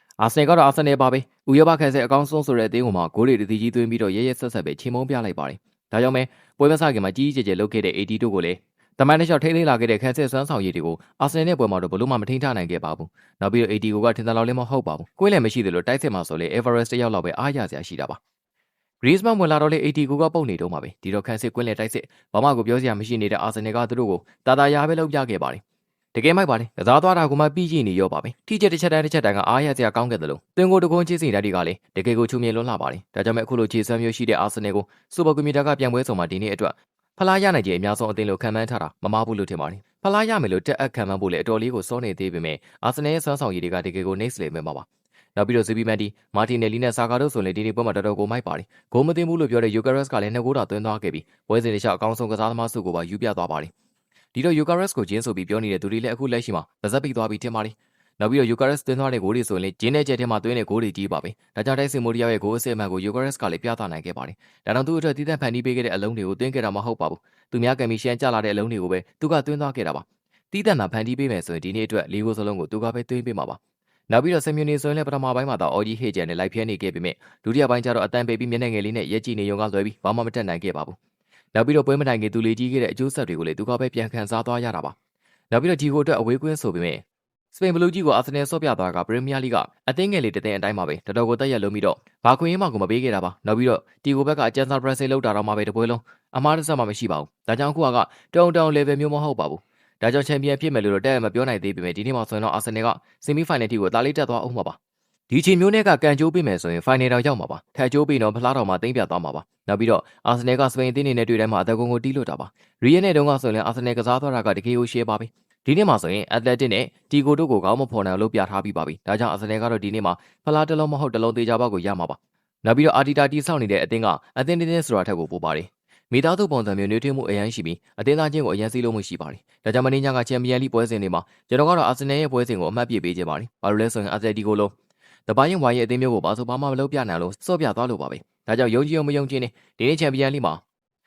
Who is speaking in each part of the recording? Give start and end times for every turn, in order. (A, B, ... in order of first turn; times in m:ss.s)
0:00.2-0:18.2 A
0:19.0-0:25.6 A
0:26.1-0:53.7 A
0:54.3-1:13.6 A
1:14.1-1:21.0 A
1:21.5-1:25.0 A
1:25.5-1:27.0 A
1:27.5-1:44.8 A
1:45.3-2:14.7 A
2:15.3-2:20.6 A